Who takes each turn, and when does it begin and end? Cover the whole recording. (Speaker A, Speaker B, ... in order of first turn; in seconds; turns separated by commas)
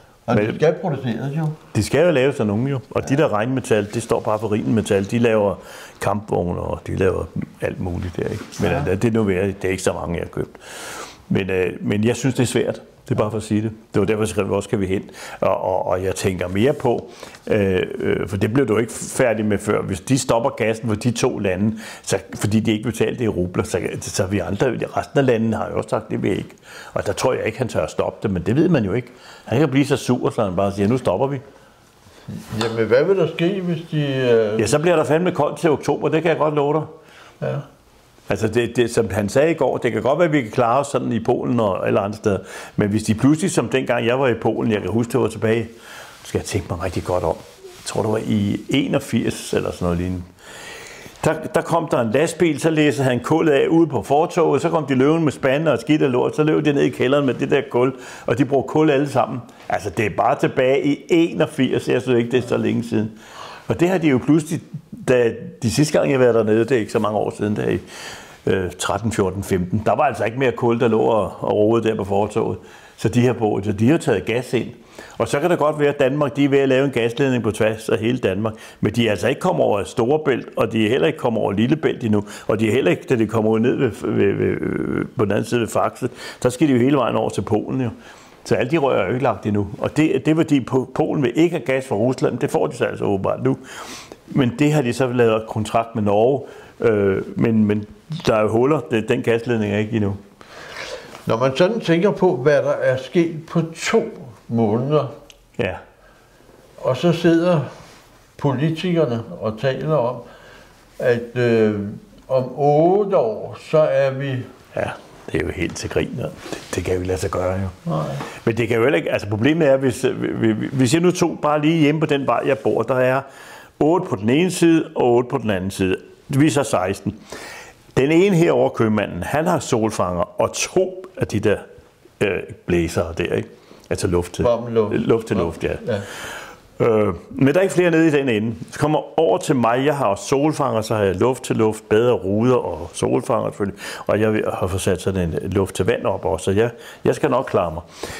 Speaker A: 0.3-1.6, Speaker B: 0.3-0.6, Speaker B: 1.7-31.4, Speaker A: 32.3-34.8, Speaker B: 34.6-36.9, Speaker B: 38.3-50.3, Speaker B: 51.2-63.1, Speaker B: 63.7-67.8, Speaker B: 68.4-93.6, Speaker B: 94.3-100.2, Speaker A: 101.3-105.1, Speaker A: 106.8-107.7, Speaker A: 108.4-110.2, Speaker A: 111.0-114.5, Speaker B: 114.7-117.8, Speaker A: 117.9-118.2, Speaker B: 118.3-123.2, Speaker B: 123.8-127.2, Speaker B: 127.9-131.6, Speaker B: 132.2-135.8, Speaker A: 134.4-136.1, Speaker B: 136.8-147.9